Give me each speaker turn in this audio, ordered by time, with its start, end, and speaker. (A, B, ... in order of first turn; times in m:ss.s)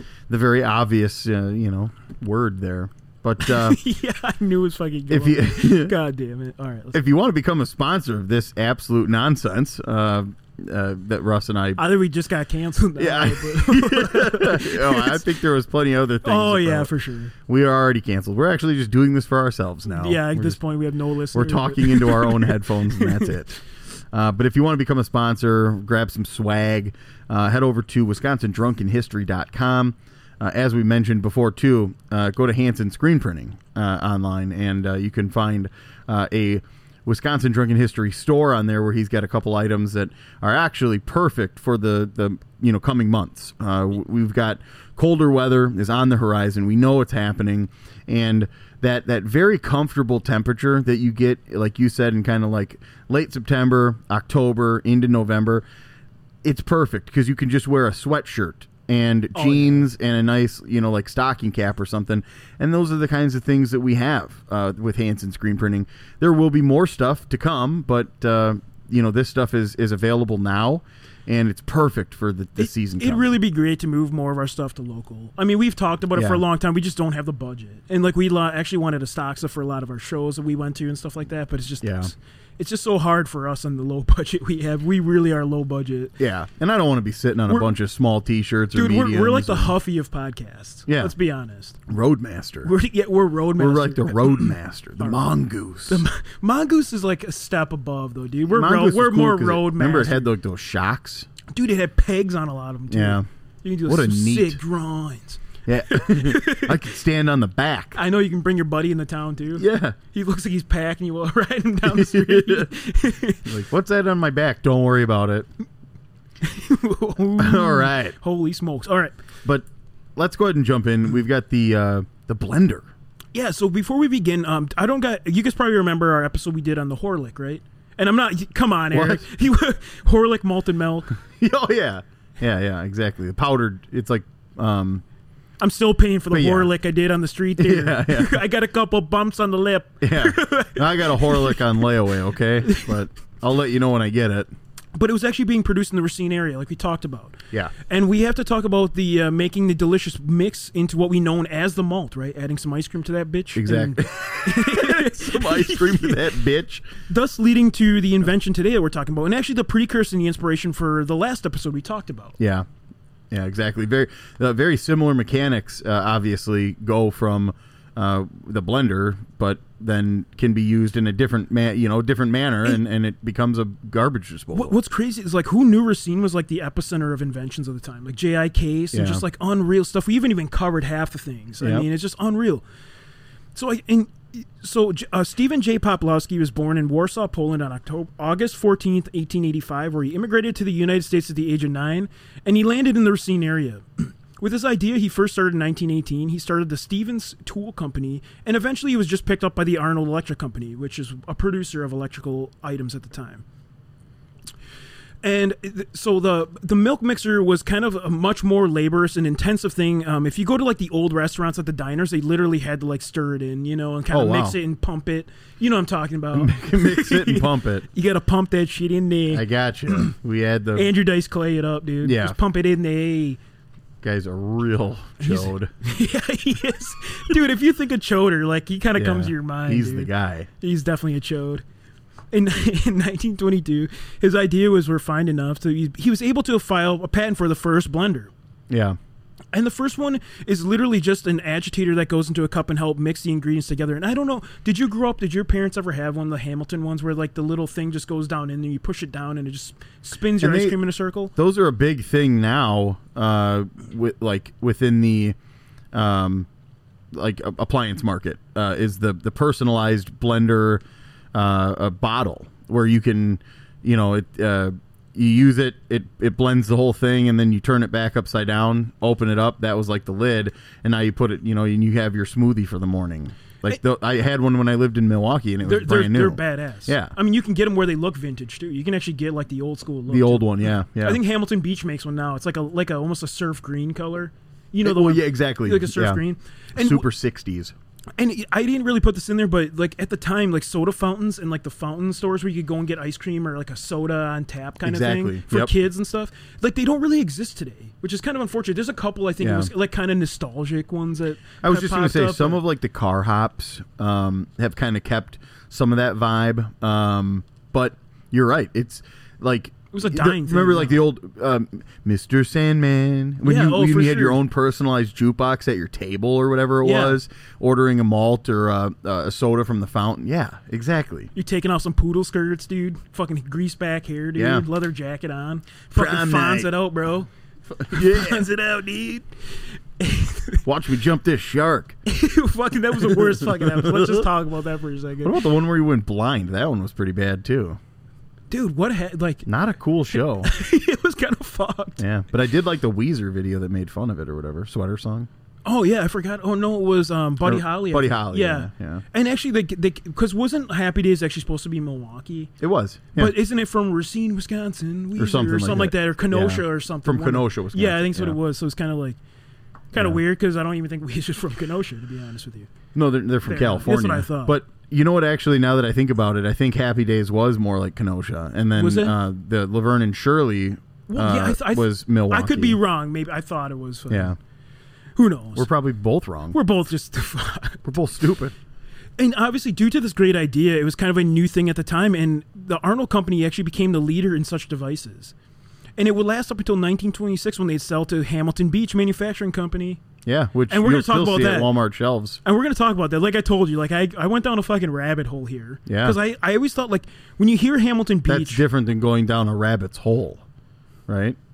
0:00.3-0:03.8 A
0:03.4-0:07.0 B
0:05.1-0:05.9 A
0:06.9-0:11.8 A
0:11.8-0:15.2 B
0:13.0-0:16.9 A
0:16.2-0:17.3 B
0:17.4-0:20.6 A
0:19.9-0:23.3 B
0:21.3-0:23.6 A
0:24.1-0:55.6 A
0:56.4-1:13.2 A
0:59.3-0:59.9 B
1:12.6-1:26.2 B
1:16.1-1:16.4 A
1:21.8-1:22.1 A
1:26.2-1:29.8 A
1:27.5-1:27.7 B
1:28.7-1:31.8 B
1:30.9-1:31.1 A
1:31.9-1:32.7 A
1:32.6-1:35.3 B
1:33.6-1:36.0 A
1:35.9-1:40.3 B
1:38.5-1:41.3 A
1:41.5-1:46.8 B
1:42.9-1:43.2 A
1:43.8-1:44.6 A
1:45.7-1:48.0 A
1:47.9-1:53.5 B
1:49.6-1:50.0 A
1:51.8-1:52.7 A
1:53.4-1:55.5 A
1:56.4-1:59.1 B
1:57.4-1:58.2 A
1:59.4-2:02.9 A
2:03.3-2:11.1 B
2:08.9-2:09.3 A
2:11.2-2:15.0 A
2:15.6-2:21.8 B
2:16.3-2:16.7 A
2:17.6-2:18.4 A
2:20.0-2:24.5 A
2:22.6-2:22.9 B
2:24.9-2:36.3 B
2:33.5-2:36.8 A
2:37.1-2:42.4 B
2:42.4-2:42.7 A
2:43.3-2:54.7 A
2:54.5-3:02.6 B
2:58.9-2:59.2 A
3:01.6-3:01.8 A
3:03.5-3:23.4 B
3:25.2-3:40.1 B
3:34.1-3:34.6 A
3:36.3-3:37.8 A
3:39.3-3:40.9 A
3:40.7-3:43.4 B
3:42.0-3:42.4 A
3:44.0-3:45.7 A
3:45.2-3:51.6 B
3:48.9-3:50.5 A
3:52.3-3:58.3 B
3:58.7-3:59.0 A
3:59.5-4:11.3 B
4:10.4-4:10.8 A
4:11.4-4:15.4 A
4:15.9-4:16.5 A
4:17.1-4:20.8 A
4:21.3-4:37.1 A
4:35.6-4:47.0 B
4:40.1-4:41.2 A
4:44.8-4:46.2 A
4:46.8-4:47.7 A
4:48.2-5:02.6 B
4:54.8-4:55.7 A
4:59.4-4:59.7 A
5:01.6-5:21.3 A
5:09.9-5:11.0 B
5:13.4-5:14.4 B
5:16.8-5:17.2 B
5:21.3-5:27.3 B
5:24.3-5:24.6 A
5:25.9-5:26.7 A
5:27.7-5:28.4 A
5:27.9-5:29.3 B
5:30.0-5:30.6 B
5:30.6-5:32.0 A
5:32.0-5:35.4 B
5:33.0-5:34.3 A
5:35.2-5:37.8 A
5:38.5-5:39.5 B
5:39.4-5:40.5 A
5:40.1-5:42.0 B
5:42.0-5:45.3 A
5:45.6-5:52.5 B
5:47.4-5:49.0 A
5:52.6-5:53.3 A
5:53.1-5:59.2 B
5:55.2-5:58.4 A
5:59.9-6:02.7 B
5:59.9-6:00.2 A
6:02.9-6:12.8 A
6:03.4-6:04.6 B
6:08.8-6:09.1 B
6:11.1-6:14.4 B
6:14.1-6:14.4 A
6:15.2-6:15.7 B
6:15.6-6:16.6 A
6:16.5-6:17.8 B
6:17.8-6:18.6 A
6:19.2-6:25.3 B
6:26.0-6:30.0 B
6:30.2-6:32.4 A
6:30.7-6:31.7 B
6:32.4-6:38.6 B
6:35.9-6:36.2 A
6:38.2-6:40.4 A
6:41.1-6:41.4 A